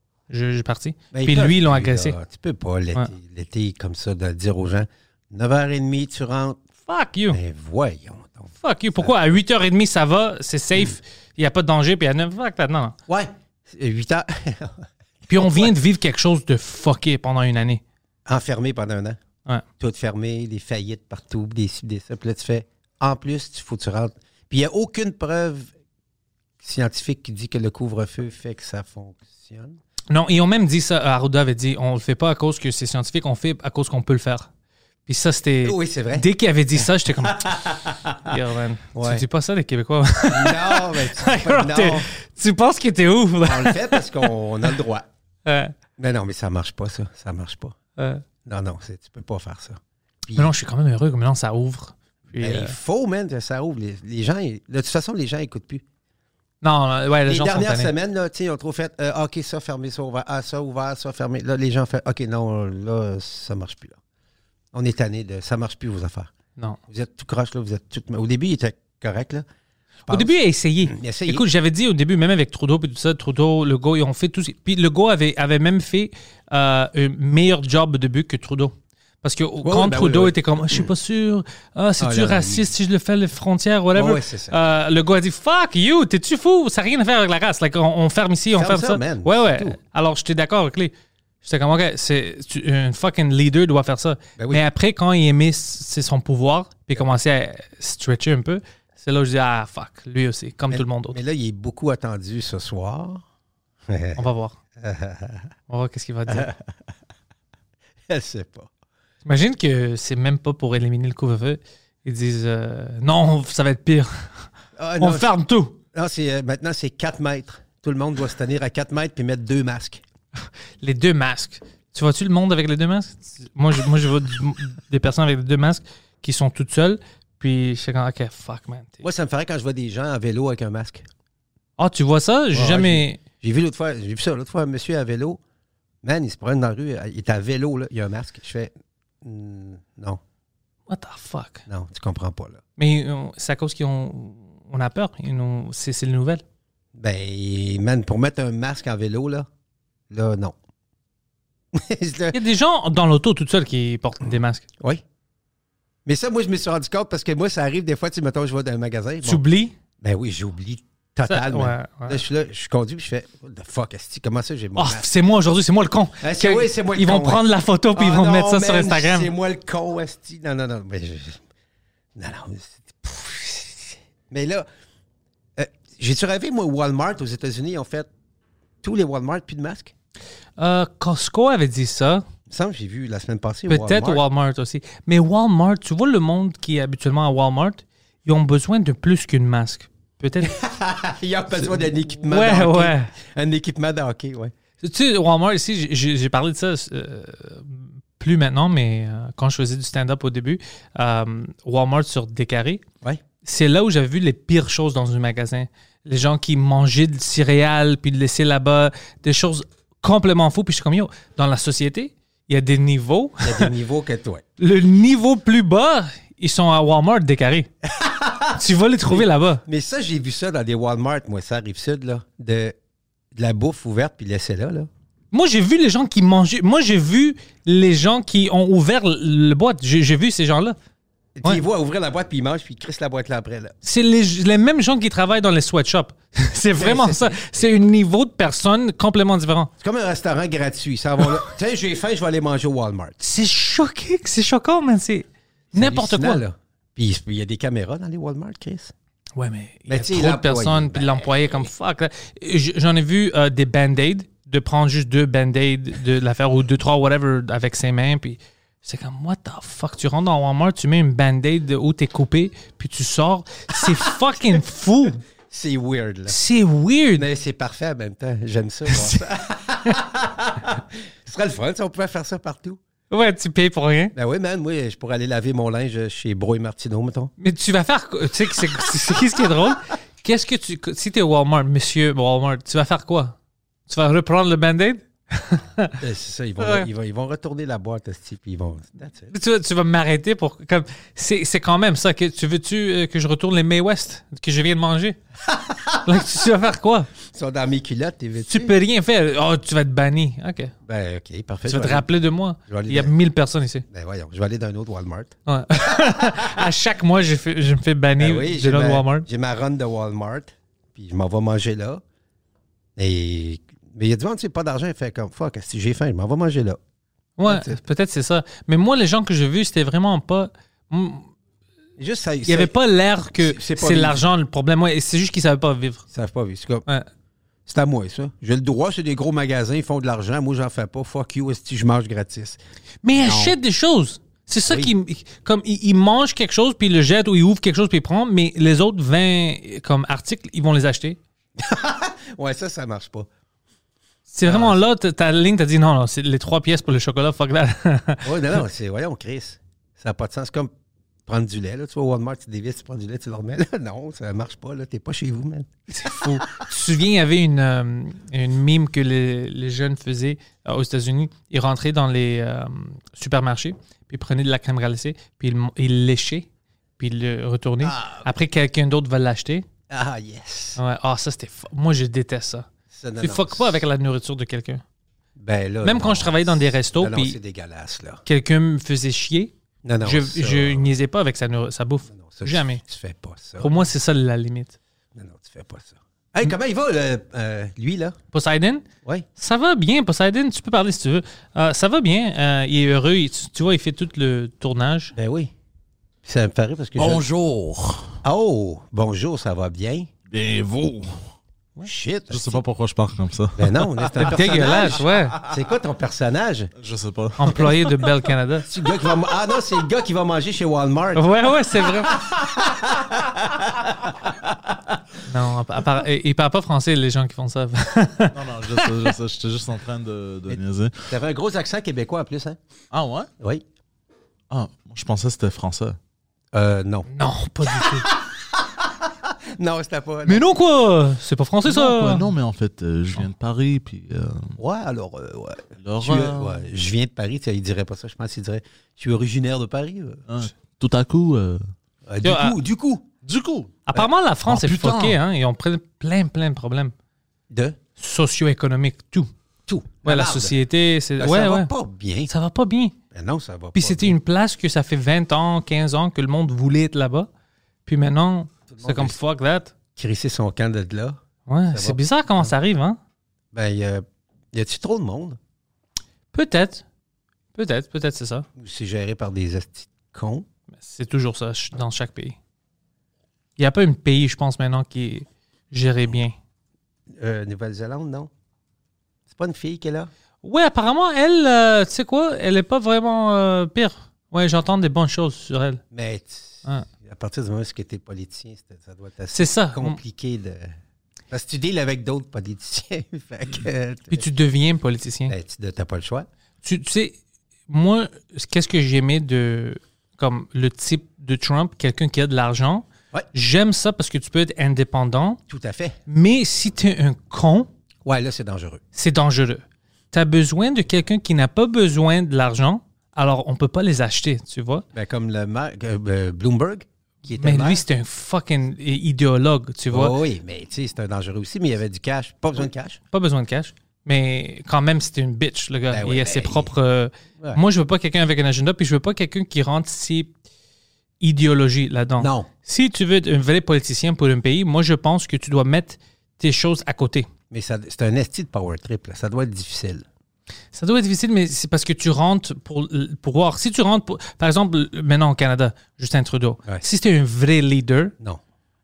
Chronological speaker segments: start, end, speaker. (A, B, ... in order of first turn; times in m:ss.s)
0:00.3-0:02.2 A
0:01.1-0:06.6 B
0:06.9-0:07.4 A
0:07.3-0:09.2 B
0:08.6-0:13.0 A
0:13.1-0:15.7 B
0:15.3-0:17.8 A
0:18.3-0:19.2 B
0:19.8-0:25.7 B
0:26.6-0:29.8 B
0:30.1-0:34.5 A
0:35.1-0:37.5 A
0:35.6-0:38.4 B
0:38.2-0:44.1 A
0:38.9-0:39.3 B
0:40.3-0:42.1 B
0:43.4-0:45.1 B
0:45.5-0:45.7 A
0:46.0-0:47.8 B
0:48.0-0:48.2 A
0:48.4-0:50.5 B
0:50.4-0:52.8 A
0:52.4-0:55.8 B
0:56.6-0:57.9 A
0:57.3-1:04.0 B
1:04.7-1:06.3 B
1:06.9-1:09.4 B
1:10.1-1:11.4 B
1:10.1-1:30.9 A
1:19.6-1:20.9 B
1:22.0-1:22.7 B
1:23.9-1:24.6 B
1:28.5-1:29.8 B
1:31.4-1:41.2 A
1:34.4-1:34.6 B
1:40.7-1:43.2 B
1:43.9-1:44.2 B
1:44.2-1:44.6 A
1:44.8-1:45.5 B
1:45.7-1:46.5 A
1:46.3-1:46.6 B
1:48.1-1:48.7 B
1:49.2-1:54.3 A
1:54.8-1:55.3 B
1:55.0-1:55.8 A
1:55.9-2:00.0 B
2:00.8-2:09.0 A
2:09.0-2:11.0 B
2:11.8-2:13.2 A
2:12.5-2:15.4 B
2:16.0-2:20.2 B
2:20.9-2:21.6 A
2:21.7-2:22.6 B
2:22.8-2:26.4 A
2:27.0-2:29.5 B
2:30.1-2:30.6 B
2:31.7-2:32.4 B
2:32.3-2:34.6 A
2:36.1-2:39.4 B
2:39.2-2:39.8 A
2:40.0-2:45.0 B
2:41.3-2:42.2 A
2:44.8-2:49.3 A
2:46.2-2:51.4 B
2:52.2-2:54.7 B
2:55.6-2:58.1 B
2:58.8-2:59.9 B
3:00.6-3:02.2 A
3:02.5-3:04.2 B
3:03.7-3:10.6 A
3:10.4-3:14.5 B
3:11.5-3:13.1 A
3:14.8-3:22.8 A
3:23.4-3:33.7 A
3:33.4-3:34.4 B
3:34.6-3:37.7 A
3:37.8-3:42.8 B
3:38.6-3:39.6 A
3:43.3-3:44.9 B
3:45.3-3:50.8 A
3:51.4-3:53.7 B
3:53.8-3:59.7 A
3:56.8-3:57.7 B
3:59.8-4:03.2 B
4:03.2-4:06.4 A
4:05.7-4:08.9 B
4:09.4-4:25.2 A
4:09.9-4:11.6 B
4:23.8-4:24.6 B
4:25.5-4:26.4 B
4:26.3-4:27.3 A
4:27.2-4:32.8 B
4:28.9-4:29.2 A
4:33.1-4:34.1 A
4:34.2-4:37.3 B
4:37.4-4:43.4 A
4:43.9-4:46.0 A
4:46.0-4:49.3 B
4:46.6-4:46.9 A
4:49.3-4:55.2 A
4:55.5-4:56.2 B
4:56.0-4:57.1 A
4:57.3-4:58.8 B
4:58.5-5:00.7 A
5:00.8-5:02.1 B
5:01.7-5:03.8 A
5:02.7-5:03.1 B
5:03.9-5:06.5 B
5:05.5-5:09.3 A
5:08.2-5:12.0 B
5:13.0-5:16.8 B
5:17.4-5:21.3 A
5:17.5-5:17.8 B
5:22.0-5:22.7 B
5:22.4-5:26.0 A
5:23.4-5:24.2 B
5:26.1-5:26.9 B
5:27.7-5:32.6 B
5:33.0-5:41.2 A
5:33.1-5:33.6 B
5:34.7-5:34.9 B
5:41.6-5:43.3 B
5:44.3-5:48.3 A
5:44.4-5:44.8 B
5:48.2-5:50.7 B
5:51.3-5:56.4 B
5:55.9-6:06.5 A
6:07.0-6:09.7 A
6:07.8-6:08.3 B
6:09.9-6:10.8 B
6:10.8-6:12.7 A
6:12.9-6:13.8 B
6:13.2-6:14.8 A
6:15.4-6:18.2 B
6:15.8-6:17.4 A
6:18.2-6:19.5 A
6:19.8-6:20.9 B
6:20.0-6:22.8 A
6:22.1-6:23.8 B
6:23.6-6:24.8 A
6:25.2-6:28.2 B
6:28.3-6:28.8 A
6:29.4-6:35.1 A
6:35.2-6:35.5 B
6:36.2-6:37.3 B
6:37.0-6:38.2 C
6:38.2-6:40.1 B
6:40.3-6:41.2 C
6:41.8-6:42.6 B
6:42.3-6:45.6 C
6:43.6-6:46.7 B
6:44.2-6:45.4 A
6:46.8-6:48.1 C
6:47.4-6:48.7 A
6:48.7-6:51.3 B
6:51.2-6:52.2 A
6:52.1-6:54.1 B
6:55.3-6:59.1 A
6:58.3-7:01.1 C
7:00.5-7:02.6 B
7:02.9-7:03.3 C
7:03.4-7:03.6 B
7:04.5-7:06.0 C
7:06.5-7:07.1 B
7:07.1-7:08.1 A
7:07.7-7:10.5 B
7:10.3-7:12.3 A
7:11.6-7:14.5 C
7:14.6-7:20.2 B
7:15.8-7:16.6 C
7:20.3-7:21.6 C
7:22.1-7:23.1 B
7:22.2-7:22.6 A
7:23.2-7:23.9 C
7:23.9-7:26.9 A
7:24.5-7:25.2 C
7:27.5-7:27.8 B
7:28.0-7:29.3 A
7:29.7-7:30.6 B
7:30.0-7:31.7 A
7:31.2-7:32.3 B
7:32.3-7:33.0 A
7:33.1-7:34.2 B
7:33.8-7:37.3 A
7:37.9-7:39.7 A
7:38.7-7:39.2 B
7:40.0-7:41.2 B
7:41.5-7:43.0 A
7:41.7-7:42.5 B
7:43.5-7:45.4 B
7:46.3-7:46.8 A
7:47.6-7:48.5 A
7:48.6-7:50.5 B
7:50.8-7:52.4 A
7:53.6-7:56.3 A
7:57.1-7:58.3 B
7:59.3-8:00.1 B
8:00.4-8:05.8 A
8:05.9-8:10.8 B
8:09.3-8:10.0 A
8:11.3-8:14.3 B
8:14.1-8:15.3 A
8:15.3-8:16.3 B
8:16.6-8:17.2 A
8:17.7-8:25.4 A
8:25.5-8:26.0 B
8:26.1-8:27.7 A
8:28.0-8:28.8 B
8:29.0-8:34.8 A
8:34.9-8:37.8 B
8:37.4-8:40.2 A
8:39.9-8:43.0 B
8:43.1-8:50.3 A
8:45.9-8:46.7 B
8:51.2-8:57.3 A
8:52.2-8:52.5 B
8:57.5-9:00.0 B
9:00.7-9:08.2 A